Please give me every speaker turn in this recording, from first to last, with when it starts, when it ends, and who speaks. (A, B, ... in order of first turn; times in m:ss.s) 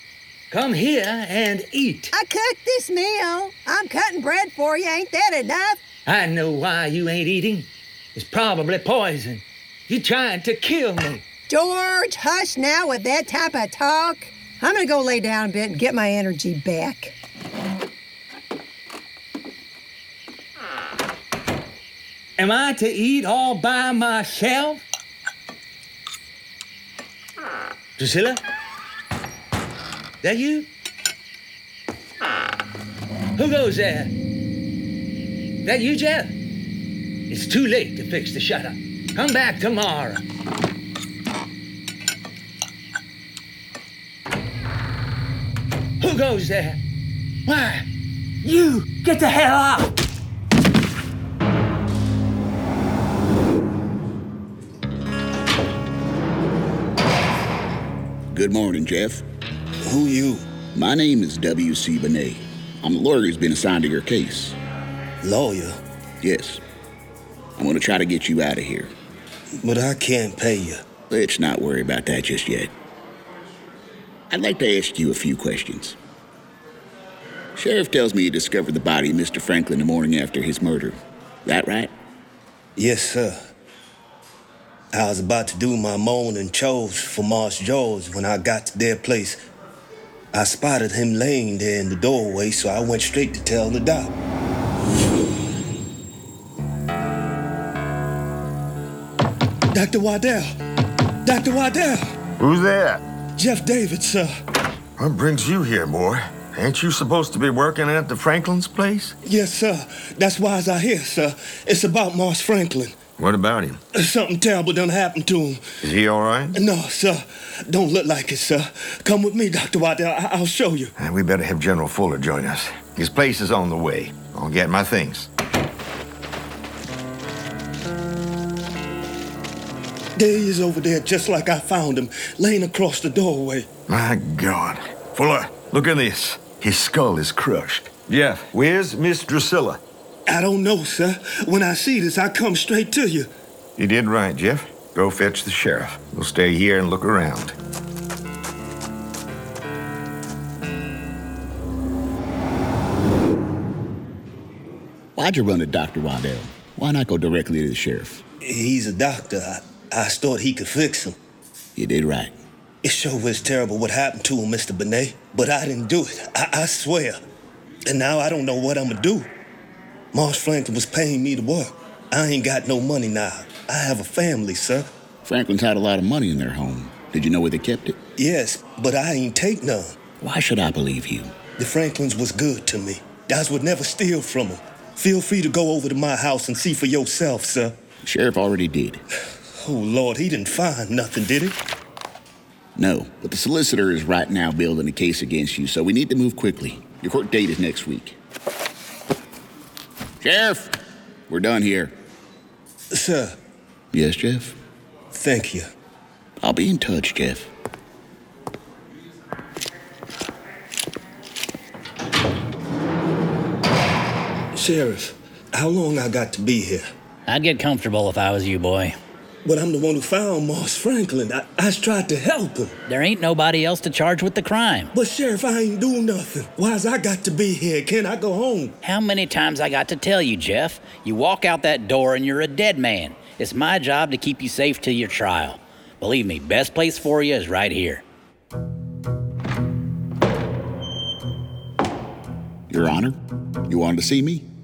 0:00.5-0:02.1 A
0:02.1-0:05.8 B
0:06.1-0:11.2 A
0:11.5-0:17.2 B
0:22.4-0:24.8 A
0:28.0-0:28.4 A
0:30.2-0:30.7 A
0:33.4-0:34.1 A
0:35.6-0:36.4 A
0:37.3-0:40.2 A
0:46.0-0:46.8 A
0:47.5-0:47.9 A
0:48.4-0:49.9 A
0:58.3-0:59.2 C
0:59.8-1:00.4 D
1:00.8-1:04.6 C
1:05.2-1:05.8 D
1:06.2-1:06.6 C
1:07.6-1:08.9 C
1:09.6-1:10.8 D
1:11.1-1:12.7 C
1:14.3-1:16.0 C
1:17.6-1:21.9 C
1:22.8-1:23.4 D
1:24.9-1:29.4 D
1:30.3-1:34.1 D
1:39.7-1:40.6 D
1:41.2-1:42.1 D
1:42.4-1:43.0 E
1:43.4-1:44.3 D
1:45.0-1:49.2 E
1:49.2-1:53.0 D
1:53.2-1:53.8 E
1:53.9-1:55.6 D
1:55.8-1:56.6 E
1:56.5-2:00.9 D
2:01.0-2:05.3 E
2:10.2-2:13.7 D
2:13.9-2:19.8 E
2:20.3-2:23.3 D
2:23.8-2:27.6 E
2:35.2-2:38.2 C
2:38.4-2:41.2 D
2:41.8-2:42.4 C
2:42.8-2:47.2 D
2:47.9-2:49.3 D
2:50.1-2:54.9 D
2:55.2-2:58.0 C
2:58.2-3:00.0 D
3:00.2-3:01.3 C
3:01.6-3:07.8 D
3:08.0-3:09.0 C
3:09.6-3:11.6 D
3:12.8-3:18.2 C
3:20.2-3:20.8 C
3:21.3-3:22.0 C
3:22.9-3:23.4 D
3:23.9-3:24.6 C
3:25.1-3:25.7 D
3:26.4-3:27.5 C
3:34.5-3:36.9 D
3:37.3-3:39.0 F
3:39.4-3:42.7 D
3:42.9-3:44.9 F
3:44.9-3:48.8 D
3:48.8-3:58.0 F
4:02.7-4:04.5 C